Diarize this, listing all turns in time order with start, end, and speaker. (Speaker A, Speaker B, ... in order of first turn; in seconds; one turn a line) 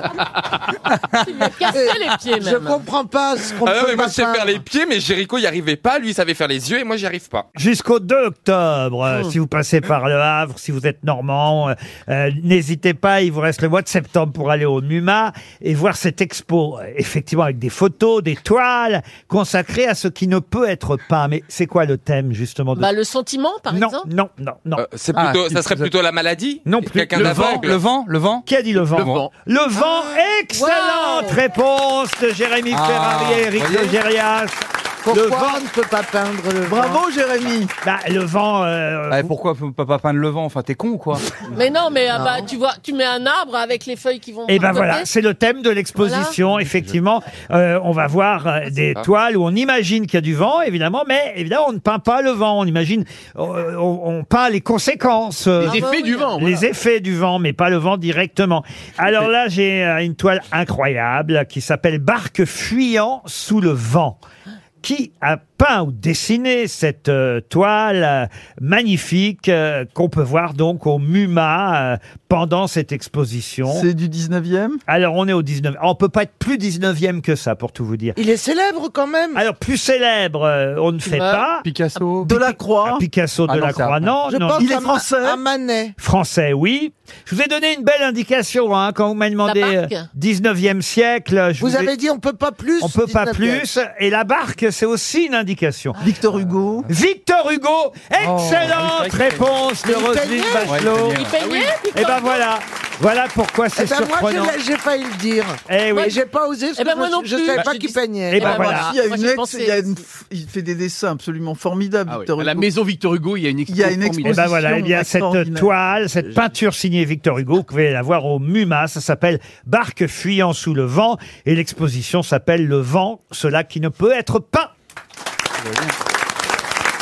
Speaker A: 1.2-2.8
Speaker B: 1.7-4.6
Speaker C: 3.6-7.5
Speaker D: 7.6-22.9
Speaker A: 22.8-24.1
Speaker D: 23.7-24.8
Speaker C: 24.8-27.8
Speaker E: 25.1-25.9
Speaker D: 26.6-27.6
Speaker E: 27.1-28.4
Speaker D: 28.4-35.6
Speaker F: 28.8-29.3
Speaker A: 30.5-31.4
Speaker E: 32.7-34.0
Speaker B: 35.0-37.0
Speaker G: 36.6-37.7
Speaker D: 37.8-39.3
Speaker E: 39.1-41.4
Speaker A: 41.5-45.1
Speaker D: 44.5-64.2
Speaker A: 46.0-46.4
Speaker F: 55.6-56.6
Speaker A: 55.6-56.4
Speaker D: 64.8-73.9
Speaker G: 73.7-74.8
Speaker D: 74.9-78.2
Speaker B: 78.2-79.4
Speaker D: 79.3-81.7
Speaker A: 81.0-81.4
Speaker E: 81.6-82.5
Speaker G: 82.2-83.0
Speaker D: 82.8-84.7
Speaker E: 83.5-84.1
Speaker B: 84.3-85.9
Speaker G: 84.6-85.4
Speaker D: 86.0-91.9
Speaker A: 89.4-90.1
Speaker B: 91.6-93.7
Speaker D: 92.8-96.0
Speaker G: 96.0-96.9
Speaker D: 96.9-101.3
Speaker E: 98.2-99.4
Speaker B: 99.8-100.8
Speaker E: 100.7-101.4
Speaker A: 101.2-102.4
Speaker F: 101.4-101.7
Speaker D: 101.9-104.6
Speaker B: 103.7-108.6
Speaker D: 105.7-106.2
Speaker A: 106.8-110.0
Speaker D: 108.3-108.9
Speaker G: 108.4-112.7
Speaker F: 112.1-114.5
Speaker G: 113.7-115.7
Speaker D: 114.2-124.7
Speaker E: 125.6-125.9